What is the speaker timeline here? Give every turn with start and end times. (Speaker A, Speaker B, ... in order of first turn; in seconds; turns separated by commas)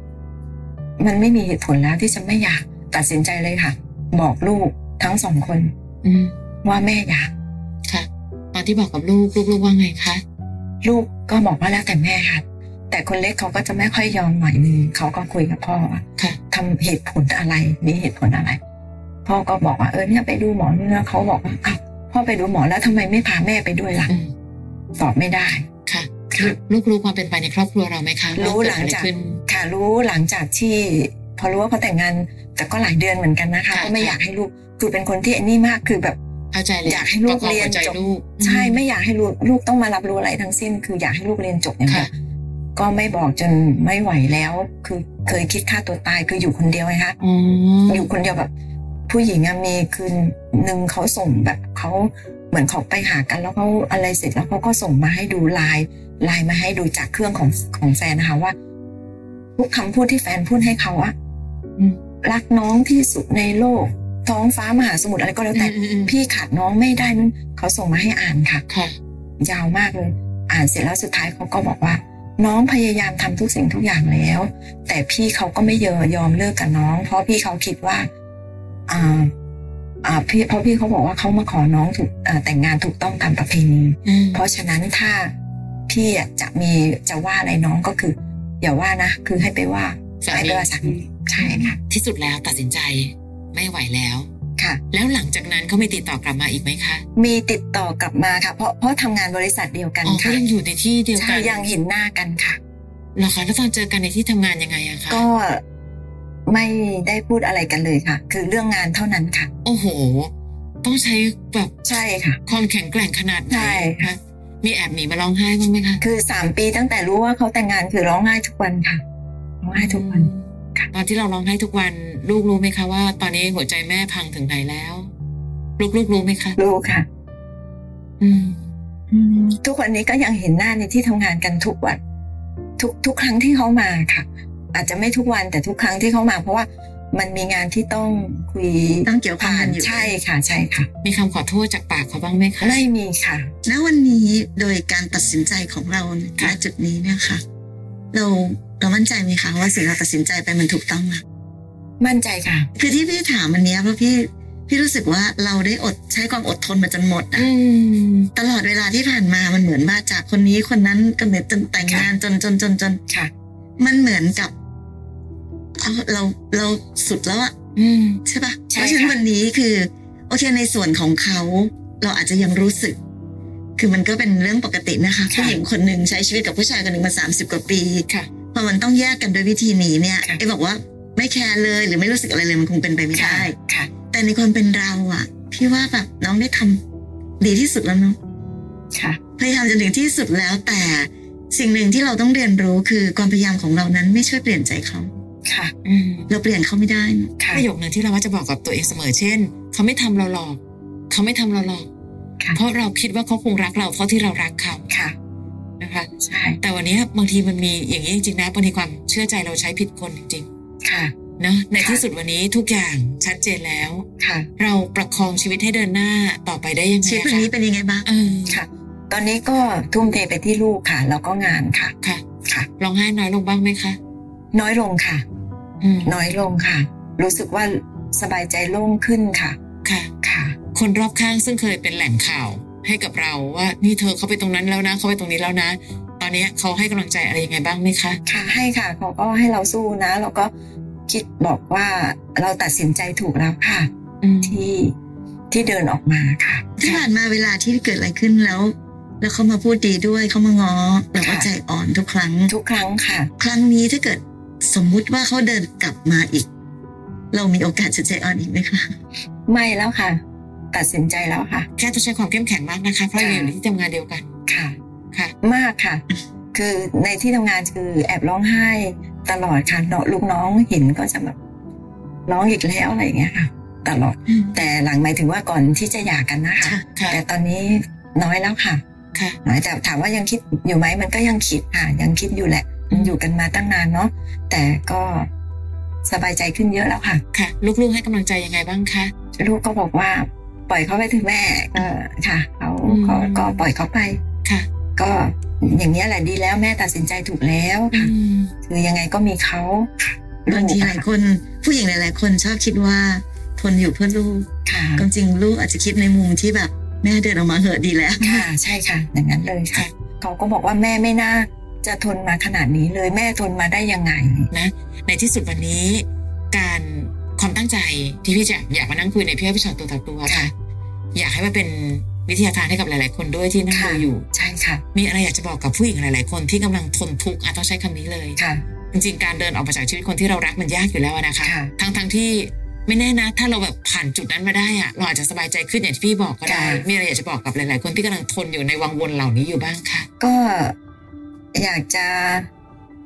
Speaker A: 1.0-5.7, Speaker B: 6.0-6.3, Speaker A: 6.6-7.3, Speaker B: 7.9-10.2, Speaker A: 10.8-18.6, Speaker A: 19.2-24.1, Speaker A: 25.0-25.7, Speaker B: 25.9-29.4, Speaker A: 26.3-26.6, Speaker A: 28.4-36.2, Speaker B: 33.7-34.2, Speaker B: 36.5-38.8, Speaker A: 36.9-42.1, Speaker A: 42.8-47.2, Speaker B: 47.2-48.1, Speaker A: 47.9-48.5, Speaker A: 49.1-58.5, Speaker A: 59.6-61.1, Speaker A: 62.2-68.6, Speaker B: 65.5-66.1, Speaker B: 68.7-69.0, Speaker A: 69.4-78.1, Speaker A: 78.9-79.3, Speaker A: 80.0-85.3, Speaker B: 84.0-84.4, Speaker A: 85.9-91.8, Speaker B: 90.2-90.7, Speaker B: 91.3-94.3, Speaker A: 94.6-94.8, Speaker B: 94.9-97.0, Speaker A: 97.2-100.4, Speaker B: 100.0-101.7, Speaker A: 101.2-102.6, Speaker B: 103.2-105.2, Speaker A: 105.1-105.6, Speaker A: 106.5-109.5, Speaker B: 109.7-110.3, Speaker B: 110.8-111.7, Speaker A: 111.8-112.4, Speaker B: 112.5-116.0, Speaker A: 113.5-114.1, Speaker A: 116.0-119.0, Speaker A: 119.6-120.9, Speaker B: 119.8-125.1, Speaker B: 125.8-126.6, Speaker A: 126.6-127.1, Speaker B: 128.2-128.7, Speaker C: 129.1-129.6, Speaker A: 129.6-132.0, Speaker A: 132.8-140.9, Speaker C: 139.1-140.2, Speaker B: 141.0-142.8, Speaker A: 142.6-143.5, Speaker C: 143.7-147.4, Speaker C: 148.1-151.2, Speaker A: 152.0-152.7, Speaker C: 152.8-157.5, Speaker B: 157.4-158.3, Speaker C: 158.3-163.0, Speaker A: 161.8-162.1, Speaker C: 163.8-164.5, Speaker C: 165.8-167.5, Speaker B: 167.8-168.2, Speaker C: 168.3-173.0, Speaker A: 168.7-169.2, Speaker C: 173.8-183.6, Speaker A: 175.3-175.6, Speaker A: 183.1-183.9, Speaker C: 184.1-186.8, Speaker C: 187.4-188.2, Speaker A: 188.9-189.2, Speaker C: 189.4-195.1, Speaker A: 195.5-195.7, Speaker B: 195.8-196.3, Speaker C: 196.3-197.3, Speaker A: 197.4-197.7, Speaker B: 197.5-200.6, Speaker B: 201.1-201.9, Speaker B: 202.6-204.9, Speaker A: 204.9-205.2, Speaker B: 205.8-206.1, Speaker A: 206.2-206.6, Speaker B: 206.6-210.5, Speaker A: 210.8-211.1, Speaker B: 211.4-214.1, Speaker A: 211.8-212.0, Speaker A: 214.2-214.5, Speaker B: 214.6-217.5, Speaker C: 217.0-218.1, Speaker B: 218.1-218.6, Speaker A: 218.5-222.7, Speaker B: 222.8-224.0, Speaker A: 224.5-225.2, Speaker B: 225.8-226.2, Speaker A: 226.0-229.6, Speaker B: 229.8-230.1, Speaker A: 230.2-230.6, Speaker B: 230.7-238.2, Speaker A: 238.3-240.5, Speaker A: 241.1-243.9, Speaker B: 244.2-244.6, Speaker A: 244.4-244.9, Speaker A: 245.5-246.7, Speaker C: 246.8-252.5, Speaker B: 246.8-247.1, Speaker A: 251.2-251.5, Speaker A: 252.5-253.3, Speaker C: 253.4-256.5, Speaker C: 257.3-258.9, Speaker A: 259.5-260.2, Speaker A: 260.7-261.7, Speaker B: 261.8-264.3, Speaker A: 263.2-263.5, Speaker A: 264.5-264.8, Speaker A: 265.4-266.0, Speaker A: 266.5-271.4, Speaker A: 272.3-278.8, Speaker C: 274.3-274.6, Speaker B: 276.9-277.2, Speaker A: 279.4-285.3, Speaker B: 282.9-283.1, Speaker A: 286.1-287.2, Speaker B: 287.3-289.1, Speaker A: 289.4-294.2, Speaker B: 292.9-293.6, Speaker A: 295.0-298.1, Speaker B: 297.9-298.5, Speaker A: 298.6-301.1, Speaker C: 300.5-304.5, Speaker A: 304.7-305.1, Speaker C: 305.0-308.5, Speaker A: 308.2-314.5, Speaker B: 314.5-320.5, Speaker A: 320.2-320.5, Speaker B: 321.1-324.2, Speaker A: 323.7-324.8, Speaker B: 324.9-328.4, Speaker A: 328.4-328.6, Speaker B: 328.9-340.1, Speaker A: 331.4-331.7, Speaker A: 336.5-336.9, Speaker A: 340.2-340.8, Speaker A: 341.5-342.5